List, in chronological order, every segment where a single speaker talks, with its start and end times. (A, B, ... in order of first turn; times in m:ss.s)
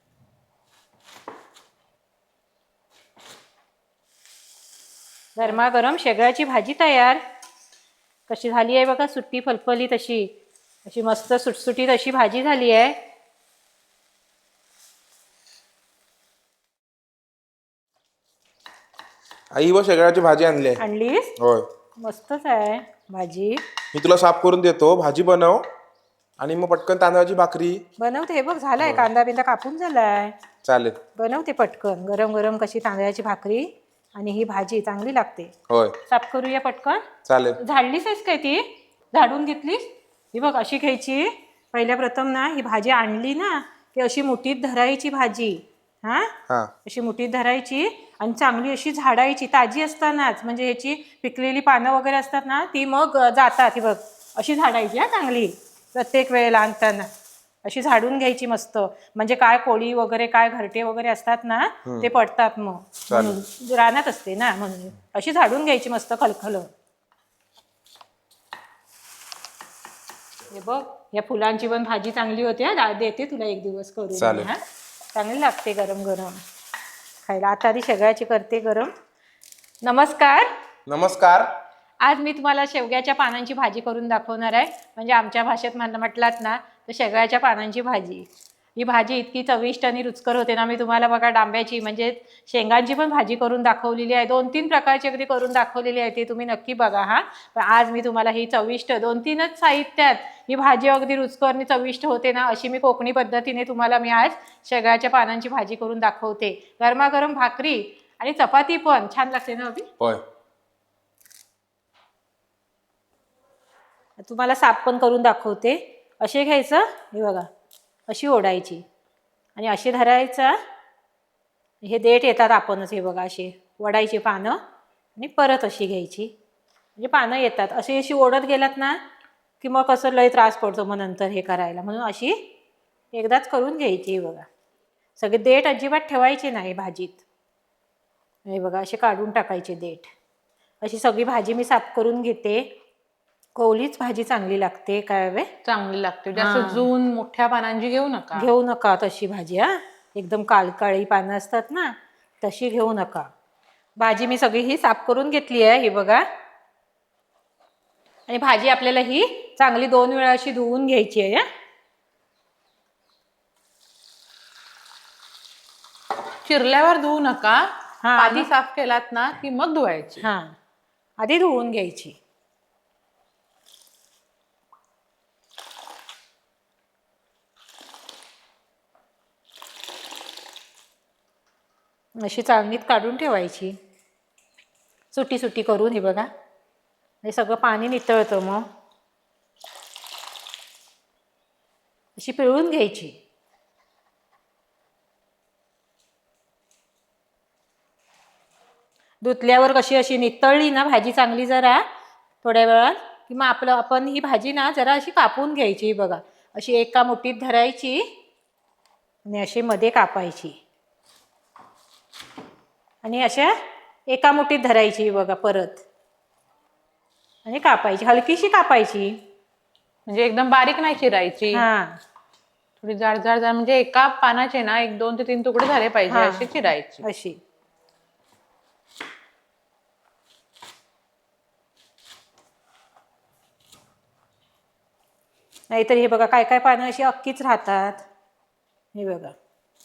0:05.4-0:07.2 A
0:08.3-0:10.3 A
0:10.9-0:13.0 A
0:19.5-0:20.8 B
0:20.8-0:21.3 A
0:21.4-0:21.7 B
0:22.0-0:23.6 A
0:23.9-0:25.6 B
0:26.4-0:27.8 B
0:28.0-0:30.3 A
0:28.8-0:29.1 B
0:30.6-0:31.0 B
0:31.2-0:35.5 A
0:35.7-0:36.0 B
0:36.1-0:37.0 A
0:37.3-0:37.6 B
0:37.6-0:57.1 A
0:57.6-1:06.7 A
1:03.1-1:03.4 B
1:10.5-1:14.6 A
1:14.2-1:14.5 B
1:15.1-1:16.4 A
1:17.2-1:18.9 A
1:19.8-1:20.5 A
1:20.9-1:21.5 B
1:22.0-1:49.9 A
1:54.2-1:57.5 A
1:58.1-1:58.8 A
1:59.6-2:00.6 A
2:01.8-2:04.6 A
2:05.2-2:06.3 A
2:07.0-2:09.0 A
2:09.6-2:12.5 A
2:13.1-2:14.5 A
2:15.2-2:17.2 A
2:18.5-2:20.1 A
2:20.8-2:22.7 A
2:23.6-2:25.5 A
2:25.6-2:28.5 C
2:26.4-2:26.9 A
2:28.4-2:33.3 A
2:34.0-2:36.2 A
2:38.3-2:41.5 A
2:46.4-2:50.2 C
2:48.0-2:48.5 A
2:50.2-2:50.6 A
2:51.2-2:52.2 A
3:02.2-3:03.8 A
3:05.1-3:06.3 A
3:07.2-3:08.7 A
3:12.2-3:13.1 A
3:19.2-3:21.8 A
3:22.4-3:28.0 A
3:29.3-3:30.6 A
3:33.0-3:33.5 A
3:34.1-3:35.8 A
3:37.4-3:39.2 A
3:40.1-3:41.7 C
3:41.5-3:42.0 A
3:42.8-3:47.0 C
3:46.1-3:46.5 A
3:47.0-3:47.4 A
3:55.7-3:58.0 A
3:58.9-3:59.4 A